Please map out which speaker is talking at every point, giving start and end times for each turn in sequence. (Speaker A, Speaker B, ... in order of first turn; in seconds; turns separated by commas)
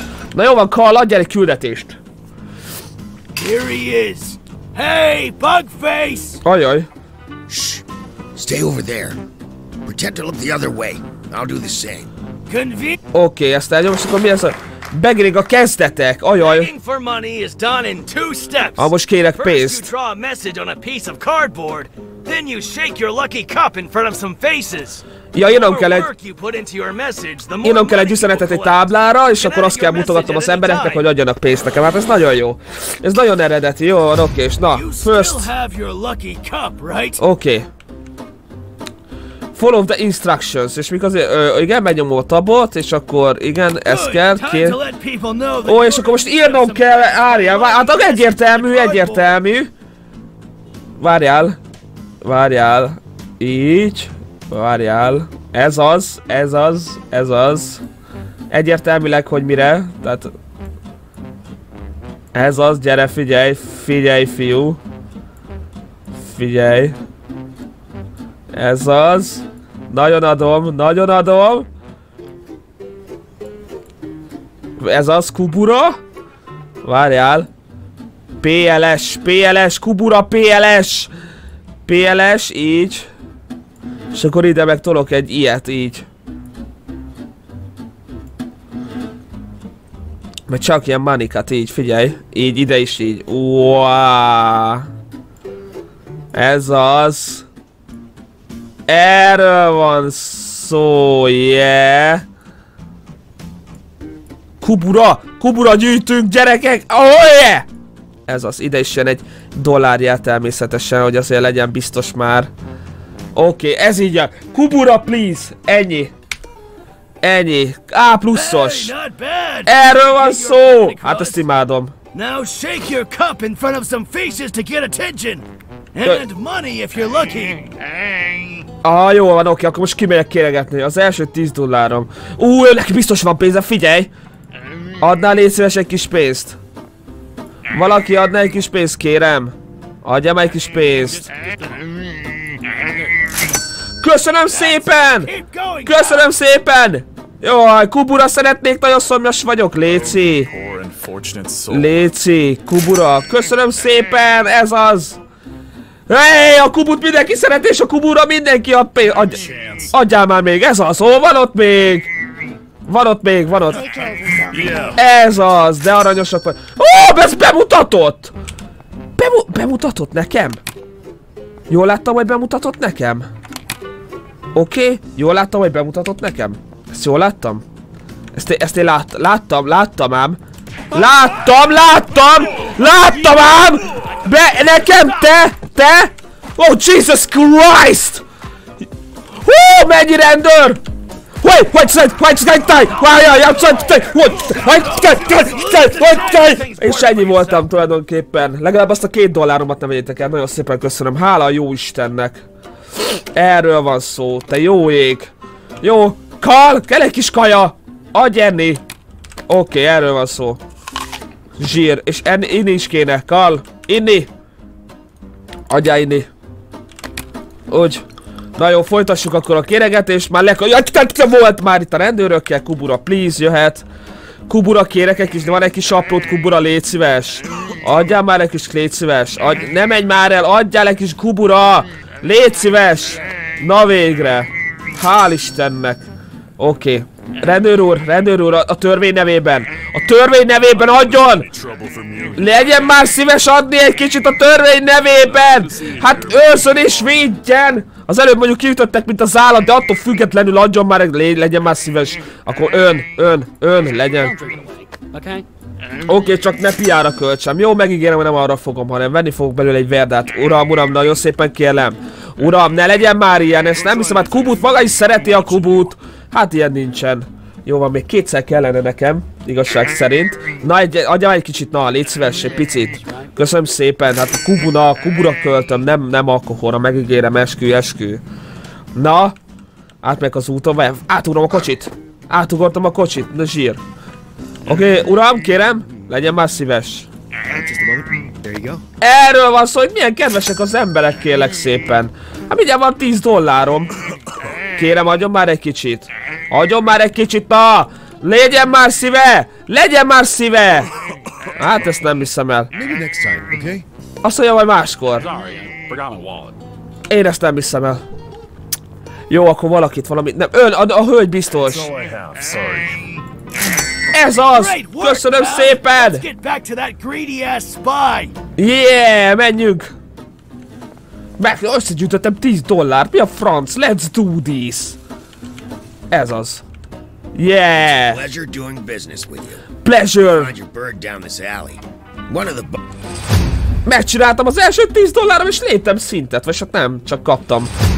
Speaker A: 0.3-2.0, Speaker B: 3.4-6.4, Speaker A: 6.4-6.9, Speaker C: 7.5-7.8, Speaker C: 8.3-9.2, Speaker C: 9.8-12.1, Speaker B: 12.5-13.0, Speaker A: 13.1-16.7, Speaker B: 16.4-31.1, Speaker A: 18.8-19.9, Speaker A: 25.3-26.1, Speaker A: 27.6-35.5, Speaker B: 34.6-37.2, Speaker A: 37.2-37.7, Speaker A: 39.5-44.8, Speaker B: 43.9-49.3, Speaker A: 45.7-49.7, Speaker A: 51.0-51.6, Speaker A: 52.2-57.8, Speaker A: 58.5-60.3, Speaker A: 62.3-64.8, Speaker A: 66.2-67.0, Speaker A: 68.5-71.7, Speaker A: 74.8-76.0, Speaker A: 76.8-77.5, Speaker A: 78.4-81.1, Speaker A: 81.9-83.1, Speaker A: 84.1-86.1, Speaker A: 90.5-94.9, Speaker A: 96.3-97.5, Speaker A: 98.9-102.2, Speaker A: 104.6-107.7, Speaker A: 108.3-112.5, Speaker A: 113.3-116.1, Speaker A: 117.2-118.9, Speaker B: 118.3-121.4, Speaker A: 119.7-121.9, Speaker B: 122.1-127.7, Speaker A: 128.8-134.1, Speaker A: 135.0-136.6, Speaker A: 137.7-141.3, Speaker A: 144.0-145.3, Speaker B: 144.5-146.3, Speaker A: 145.9-150.5, Speaker D: 149.9-152.0, Speaker A: 151.7-155.2, Speaker A: 156.1-162.1, Speaker A: 162.8-163.9, Speaker B: 164.0-164.4, Speaker D: 164.5-164.9, Speaker A: 164.9-168.3, Speaker A: 169.2-170.6, Speaker A: 171.7-173.3, Speaker A: 174.5-177.6, Speaker A: 178.3-180.4, Speaker A: 180.9-188.2, Speaker A: 189.4-190.8, Speaker A: 191.4-202.4, Speaker B: 193.0-197.7, Speaker A: 203.0-208.8, Speaker A: 209.5-210.6, Speaker A: 211.6-214.3, Speaker A: 215.7-216.3, Speaker A: 217.7-218.0, Speaker A: 218.6-223.8, Speaker A: 224.5-236.1, Speaker A: 236.6-241.5, Speaker D: 240.7-243.0, Speaker A: 242.4-254.4, Speaker D: 245.2-247.2, Speaker A: 256.1-278.2, Speaker B: 263.8-265.9, Speaker A: 278.9-279.4, Speaker A: 280.0-283.8, Speaker A: 284.7-287.1, Speaker C: 287.5-288.8, Speaker A: 289.0-293.9, Speaker A: 294.7-300.9, Speaker A: 301.6-302.7, Speaker C: 302.7-303.9, Speaker A: 304.2-305.3, Speaker D: 305.2-306.6, Speaker A: 307.1-308.0, Speaker A: 309.3-311.9, Speaker D: 311.7-313.2, Speaker A: 314.1-316.2, Speaker B: 314.4-318.3, Speaker A: 318.6-319.9, Speaker A: 321.4-325.0, Speaker A: 326.1-326.6, Speaker A: 327.4-328.2, Speaker C: 327.9-332.8, Speaker A: 329.8-330.5, Speaker A: 333.9-337.7